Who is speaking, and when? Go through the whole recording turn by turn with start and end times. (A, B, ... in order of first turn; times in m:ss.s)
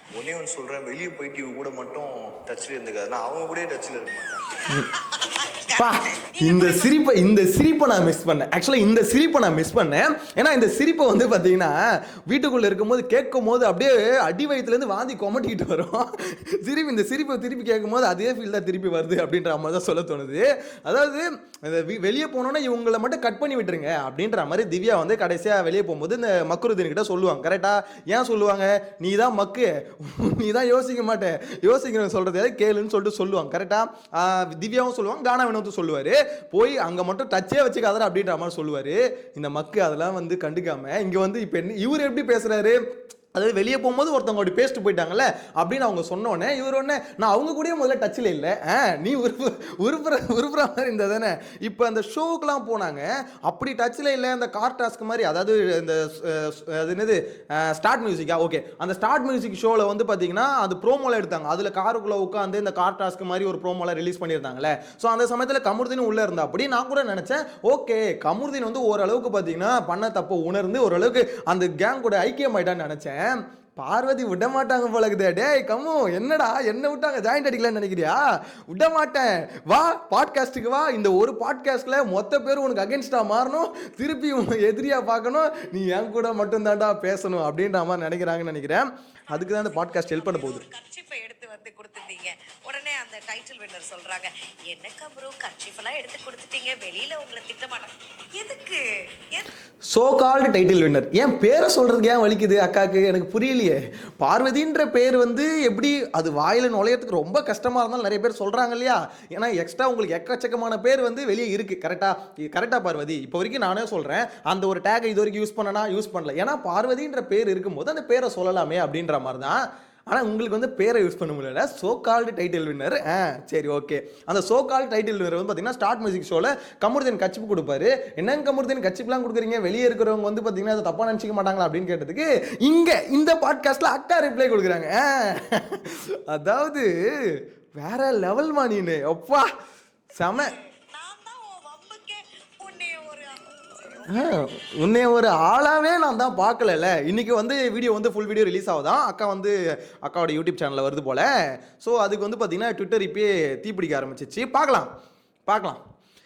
0:00.1-0:04.4 A
0:04.7-0:06.9 B
0:05.8-0:42.8 C
0:43.3-1:18.2 C
1:18.7-1:30.6 C
1:29.3-1:39.5 B
1:39.9-2:19.5 C
2:20.2-2:20.5 C
2:20.2-2:24.5 B
2:24.1-2:34.9 C
2:35.5-2:35.8 C